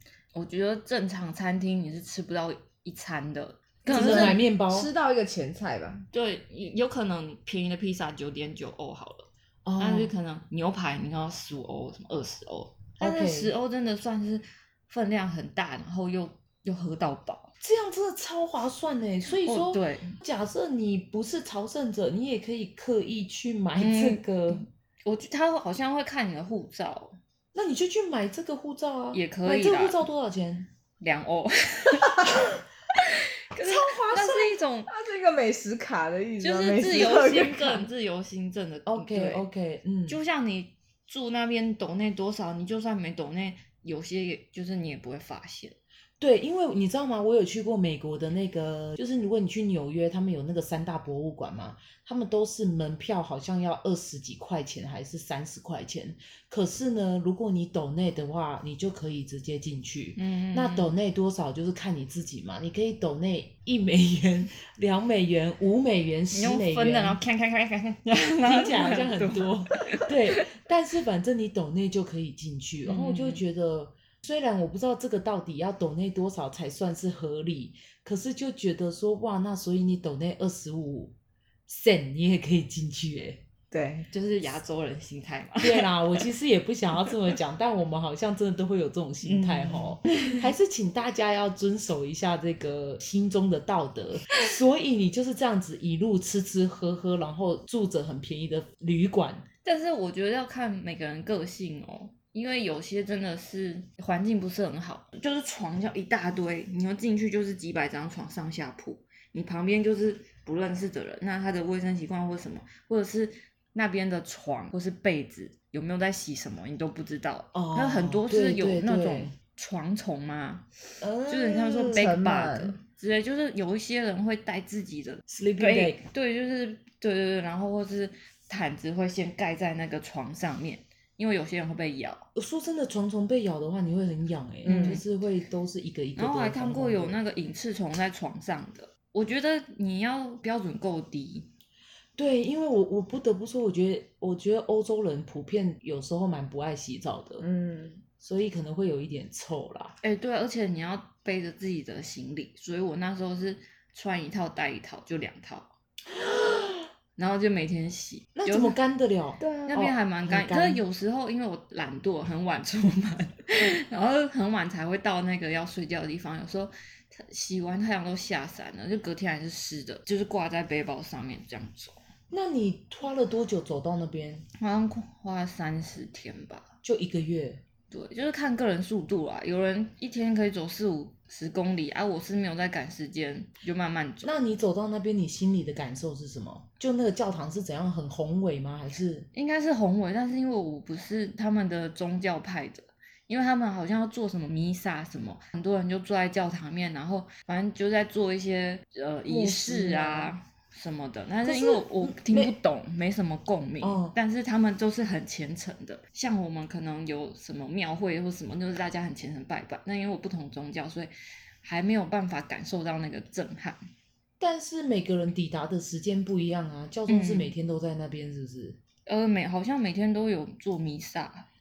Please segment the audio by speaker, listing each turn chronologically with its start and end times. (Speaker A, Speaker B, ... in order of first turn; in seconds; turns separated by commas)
Speaker A: 0.3-4.4, Speaker B: 3.9-6.0, Speaker C: 3.9-4.9, Speaker A: 6.1-17.5, Speaker C: 9.7-10.1, Speaker C: 13.0-13.5, Speaker C: 17.6-24.7, Speaker A: 19.4-20.2, Speaker A: 23.8-27.2, Speaker C: 27.5-30.7, Speaker A: 29.1-30.0, Speaker A: 31.0-34.9, Speaker C: 33.6-34.6, Speaker B: 34.9-37.9, Speaker A: 36.4-39.5, Speaker C: 38.9-40.2, Speaker A: 40.1-45.8, Speaker C: 46.2-67.2, Speaker A: 60.2-60.9, Speaker A: 66.3-70.5, Speaker C: 68.4-81.1, Speaker A: 72.8-73.4, Speaker C: 81.7-83.4, Speaker B: 83.7-84.1, Speaker A: 84.1-86.3, Speaker C: 85.6-99.5, Speaker B: 89.2-90.0, Speaker A: 99.6-120.7, Speaker C: 117.5-119.3, Speaker C: 121.0-122.1, Speaker A: 121.3-132.3, Speaker B: 121.8-122.8, Speaker C: 125.3-126.0, Speaker C: 132.3-137.2, Speaker B: 134.7-135.0, Speaker A: 134.7-135.0, Speaker A: 136.2-141.5, Speaker C: 142.2-147.4, Speaker B: 147.4-148.0, Speaker C: 148.2-150.0, Speaker A: 150.0-155.7, Speaker C: 156.3-156.7, Speaker A: 157.2-158.8, Speaker C: 158.4-160.8, Speaker B: 159.4-159.8, Speaker A: 159.7-172.0, Speaker C: 172.3-174.4, Speaker A: 174.6-176.7, Speaker C: 176.8-177.6, Speaker A: 177.9-184.3, Speaker C: 184.2-189.3, Speaker A: 189.3-211.1, Speaker C: 199.3-200.3, Speaker C: 201.4-202.6, Speaker C: 203.8-204.2, Speaker A: 211.6-213.8, Speaker C: 214.4-218.8, Speaker A: 217.1-217.5, Speaker A: 219.1-221.5